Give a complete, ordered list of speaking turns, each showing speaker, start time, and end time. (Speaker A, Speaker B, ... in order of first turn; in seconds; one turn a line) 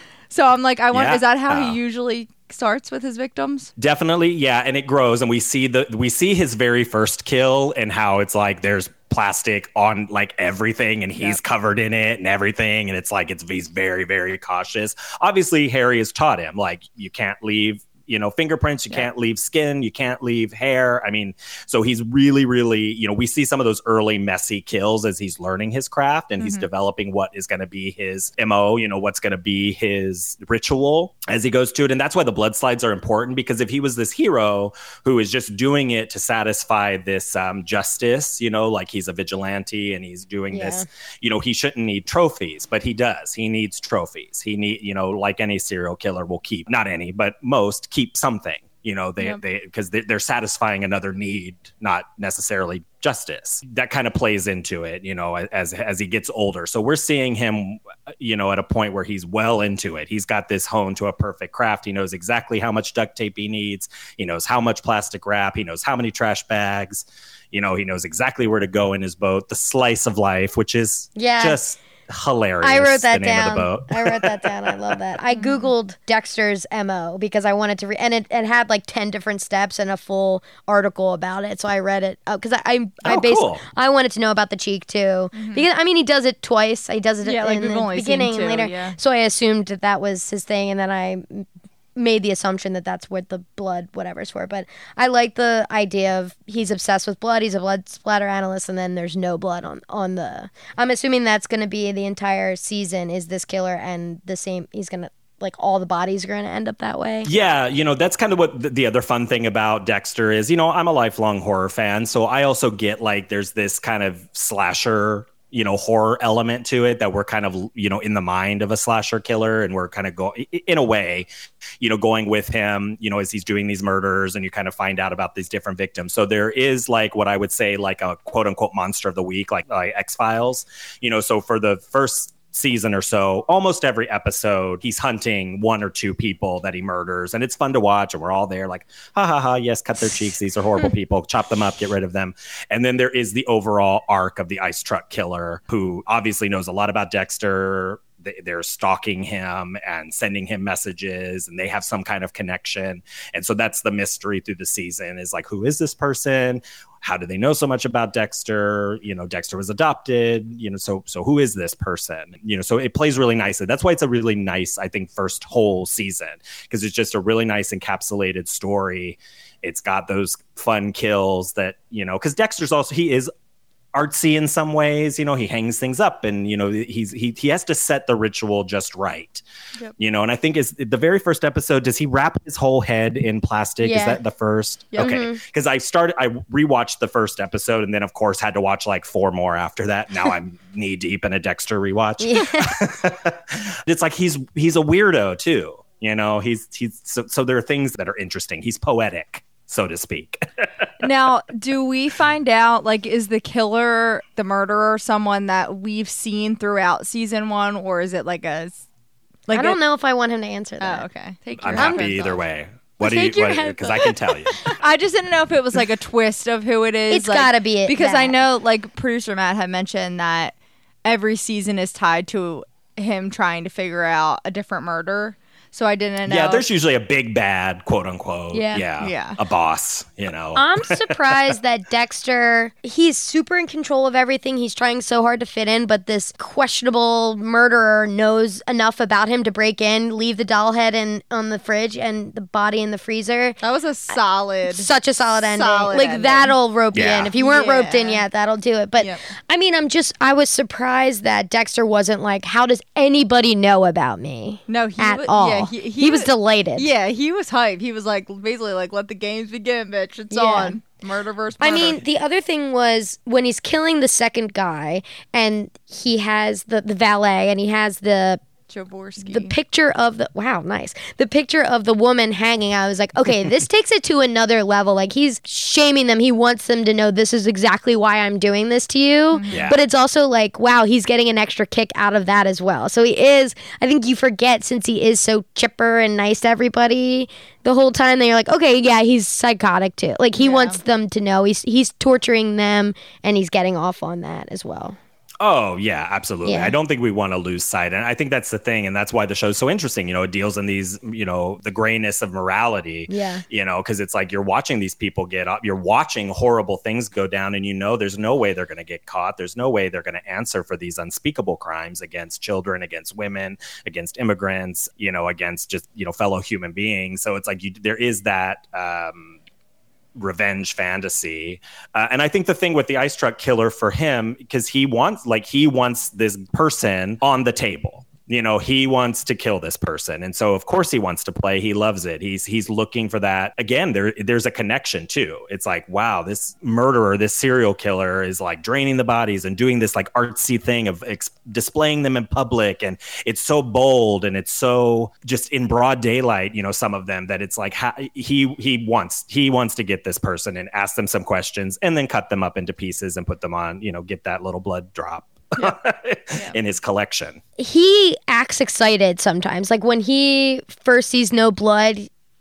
Speaker A: 0.3-3.7
Speaker B: 0.9-1.8
Speaker B: 3.8-74.9
Speaker A: 26.4-26.7
Speaker C: 40.5-40.9
Speaker C: 71.2-71.6
Speaker C: 72.6-107.3
Speaker A: 75.3-75.7
Speaker B: 83.0-83.6
Speaker A: 85.3-85.6
Speaker A: 87.2-89.0
Speaker B: 107.2-121.3
Speaker B: 121.8-173.3
Speaker B: 173.9-179.4
Speaker B: 180.0-200.9
Speaker C: 183.8-184.2
Speaker C: 185.0-185.4
Speaker C: 192.2-192.8
Speaker A: 201.0-208.8
Speaker A: 209.5-209.8
Speaker C: 209.5-211.1
Speaker A: 210.8-212.4
Speaker B: 211.6-214.6
Speaker C: 211.7-212.1
Speaker C: 213.0-214.1
Speaker A: 214.6-226.6
Speaker C: 217.1-218.3
Speaker B: 226.2-231.3
Speaker C: 228.5-228.8
Speaker A: 229.0-229.4
Speaker C: 230.6-243.6
Speaker A: 243.6-246.5
Speaker C: 244.7-256.9
Speaker B: 246.9-247.3
Speaker A: 247.3-248.2
Speaker A: 254.7-262.0
Speaker C: 260.3-260.8
Speaker C: 261.6-268.4
Speaker A: 268.7-269.5
Speaker C: 269.2-295.0
Speaker A: 279.3-279.7
Speaker B: 279.5-279.8
Speaker A: 290.3-290.8
Speaker B: 295.4-319.4
Speaker C: 296.4-296.7
Speaker C: 303.1-303.4
Speaker B: 320.1-357.4
Speaker C: 357.6-362.1